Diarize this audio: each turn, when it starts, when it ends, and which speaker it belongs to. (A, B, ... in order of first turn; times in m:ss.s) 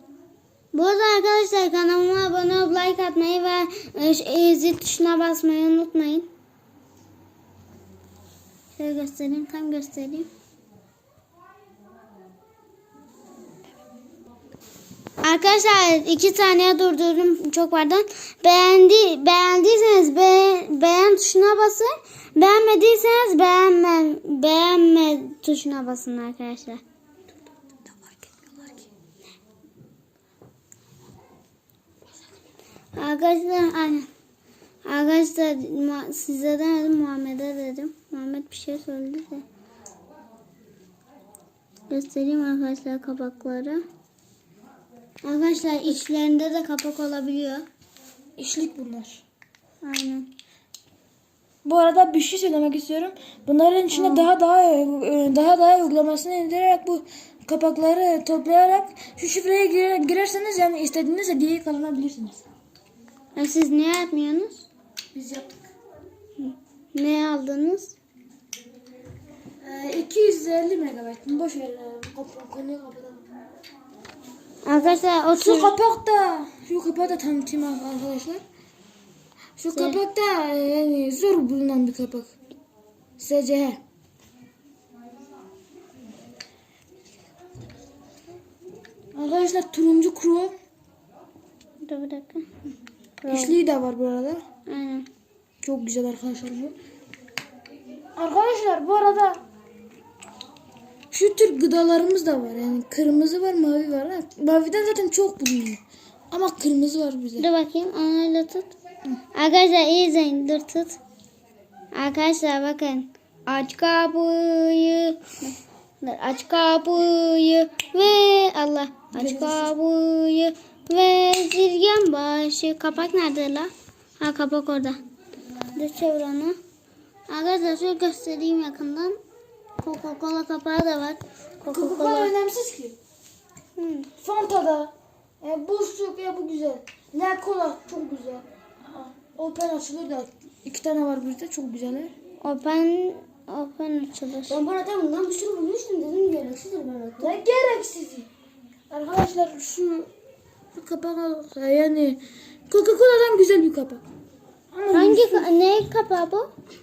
0:00.7-0:06.3 A
0:08.8-0:10.3 A
0:15.2-0:26.8 A
0:27.9-0:28.9 B
0:32.9-0:34.1 A
0:34.8-0:39.4 A
0:41.9-0:43.8 A
0:45.2-0:47.7 A
0:48.4-0:49.2 B
0:49.8-0:50.3 A
0:51.6-1:02.4 B
0:53.9-0:54.3 A
1:03.3-1:04.7 A
1:05.1-1:05.6 B
1:06.4-1:07.9 A
1:09.6-1:13.2 B
1:14.6-1:15.8 A
1:15.4-1:18.4 B
1:19.6-1:22.3 B
1:19.7-1:20.0 A
1:23.2-1:23.8 B
1:29.2-1:30.5 B
1:31.8-1:32.5 A
1:33.2-1:33.6 A
1:33.3-1:34.4 B
1:34.7-1:35.1 A
1:35.6-1:36.8 B
1:38.2-1:39.4 B
1:41.1-1:47.5 B
1:47.4-1:48.7 A
1:49.3-1:51.0 A
1:51.9-2:05.0 A
1:59.1-1:59.7 B
2:05.8-2:06.6 A
2:07.3-2:09.2 A
2:09.8-2:12.3 A
2:11.7-2:13.0 B
2:13.8-2:14.1 A
2:14.2-2:22.1 B
2:22.4-2:24.6 A
2:24.5-2:27.4 C
2:27.2-2:28.3 B
2:28.9-2:30.1 B
2:30.8-2:34.0 B
2:34.7-2:35.5 B
2:34.9-2:36.5 A